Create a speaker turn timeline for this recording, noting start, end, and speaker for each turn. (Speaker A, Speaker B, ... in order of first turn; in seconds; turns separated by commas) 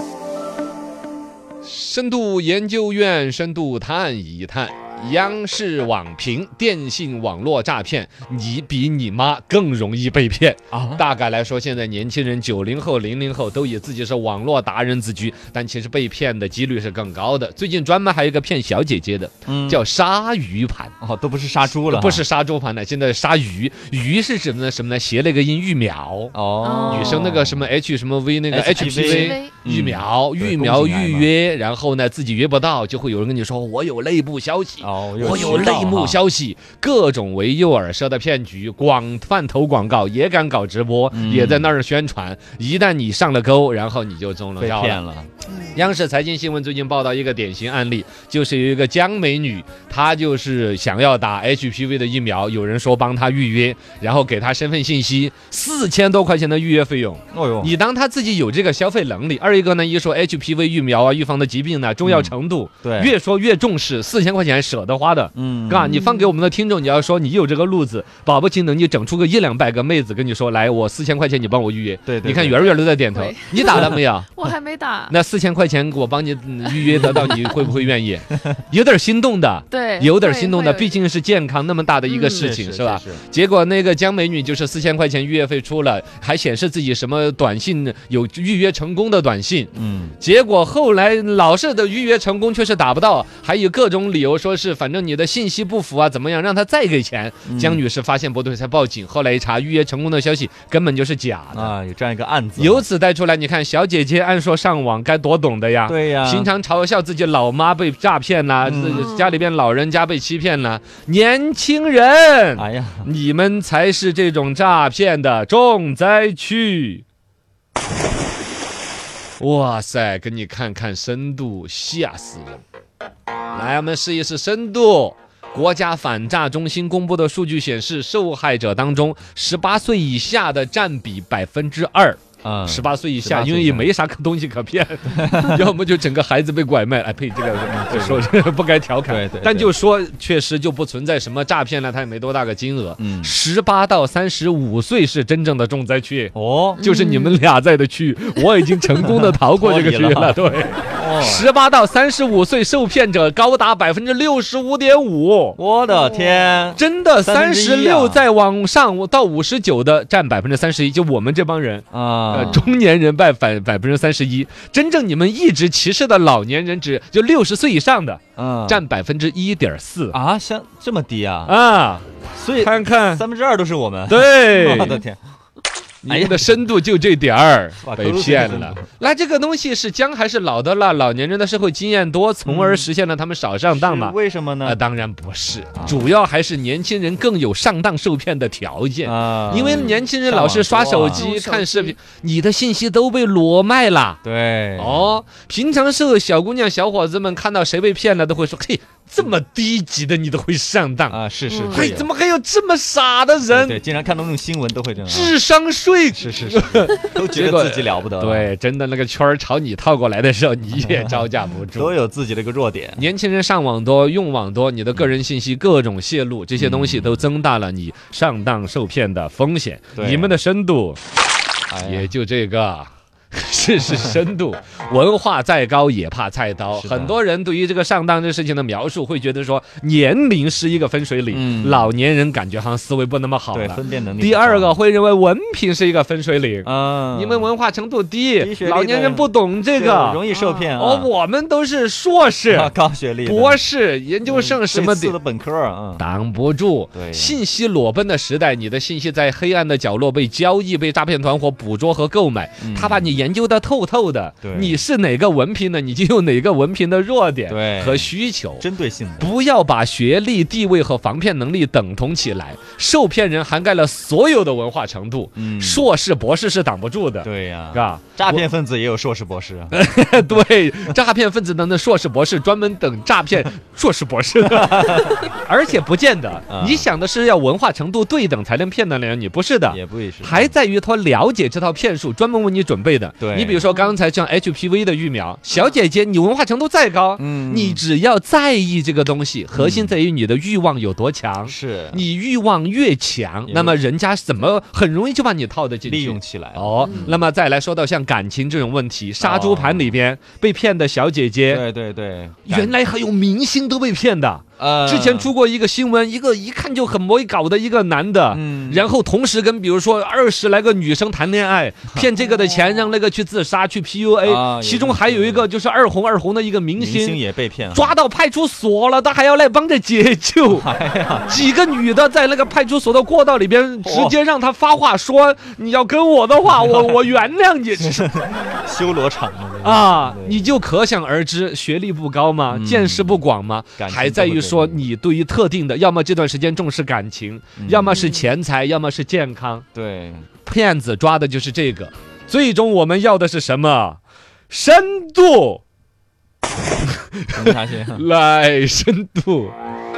Speaker A: 1.6-20.9, Speaker B: 10.7-11.0, Speaker B: 19.5-19.8, Speaker B: 21.0-22.2, Speaker A: 21.7-26.3, Speaker B: 26.3-27.7, Speaker C: 26.6-27.4, Speaker A: 26.9-45.0, Speaker B: 28.5-31.3, Speaker C: 28.9-29.5, Speaker B: 34.8-36.2, Speaker C: 35.3-35.7, Speaker B: 41.1-41.7, Speaker B: 44.6-45.3, Speaker A: 45.7-74.3, Speaker B: 57.3-57.8, Speaker B: 62.0-63.1, Speaker B: 65.3-66.0, Speaker B: 72.1-72.7, Speaker C: 72.7-75.2, Speaker A: 75.1-101.7, Speaker B: 76.9-77.3, Speaker C: 79.7-81.0, Speaker C: 82.1-82.5, Speaker B: 82.3-83.2, Speaker B: 89.8-90.2, Speaker B: 97.5-97.8, Speaker B: 101.5-102.9, Speaker A: 102.6-117.0, Speaker B: 105.9-106.5, Speaker B: 108.6-109.1, Speaker B: 112.6-113.1, Speaker A: 119.4-122.6, Speaker A: 123.5-155.6, Speaker B: 132.4-133.9, Speaker B: 135.1-135.6, Speaker B: 137.7-138.3, Speaker B: 139.1-139.7, Speaker B: 143.0-143.3, Speaker B: 146.3-146.8, Speaker C: 146.8-147.4, Speaker B: 149.3-151.5, Speaker B: 155.6-158.2, Speaker C: 156.0-156.4, Speaker A: 156.8-170.2, Speaker B: 161.9-162.7, Speaker C: 162.3-162.7, Speaker B: 168.4-168.8, Speaker B: 170.1-171.6, Speaker A: 171.4-173.2, Speaker B: 172.3-175.2, Speaker A: 174.1-175.0, Speaker A: 176.0-194.2, Speaker B: 176.1-176.6, Speaker B: 177.8-178.8, Speaker B: 182.5-182.9, Speaker B: 183.7-184.8, Speaker B: 185.8-186.0, Speaker B: 189.0-191.3, Speaker C: 189.5-190.0, Speaker C: 191.1-192.0, Speaker B: 194.2-195.1, Speaker A: 194.8-201.2, Speaker B: 201.1-202.1, Speaker C: 201.5-201.9, Speaker A: 201.7-203.8, Speaker B: 203.5-205.3, Speaker A: 205.1-212.0, Speaker B: 206.2-208.5, Speaker B: 210.9-211.2, Speaker B: 211.7-213.1, Speaker A: 213.0-221.0, Speaker B: 216.6-217.3, Speaker B: 219.9-220.4, Speaker B: 221.7-222.1, Speaker A: 221.8-240.2, Speaker B: 226.7-227.2, Speaker B: 231.3-231.9, Speaker B: 233.5-234.8, Speaker B: 236.6-237.5, Speaker B: 238.4-241.1, Speaker C: 240.3-240.7, Speaker A: 240.8-242.7, Speaker B: 242.5-243.6, Speaker A: 243.2-245.2, Speaker B: 244.2-246.1, Speaker A: 246.0-258.6, Speaker B: 246.9-247.4, Speaker B: 252.6-253.2, Speaker B: 254.4-254.8, Speaker B: 257.5-259.3, Speaker A: 259.2-268.5, Speaker B: 265.4-265.9, Speaker B: 267.2-269.8, Speaker A: 269.7-301.6, Speaker B: 274.5-275.2, Speaker B: 276.5-276.9, Speaker B: 279.7-280.5, Speaker B: 283.2-283.7, Speaker B: 287.2-287.8, Speaker B: 289.5-289.9, Speaker B: 291.4-292.0, Speaker B: 293.5-293.8, Speaker B: 295.9-297.2, Speaker B: 299.2-299.9, Speaker B: 301.5-302.8, Speaker A: 302.4-317.2, Speaker B: 304.6-305.3, Speaker B: 308.3-308.9, Speaker B: 314.2-315.5, Speaker B: 316.8-317.9, Speaker A: 317.7-320.7, Speaker B: 320.5-321.5, Speaker A: 321.3-328.1, Speaker B: 323.8-324.2, Speaker B: 326.5-326.8, Speaker B: 327.8-330.6, Speaker A: 329.6-339.6, Speaker B: 332.5-333.2, Speaker B: 333.8-334.9, Speaker B: 337.6-338.1, Speaker B: 339.7-340.3, Speaker A: 340.5-344.0, Speaker A: 344.5-345.6, Speaker A: 346.9-349.6, Speaker B: 347.4-348.1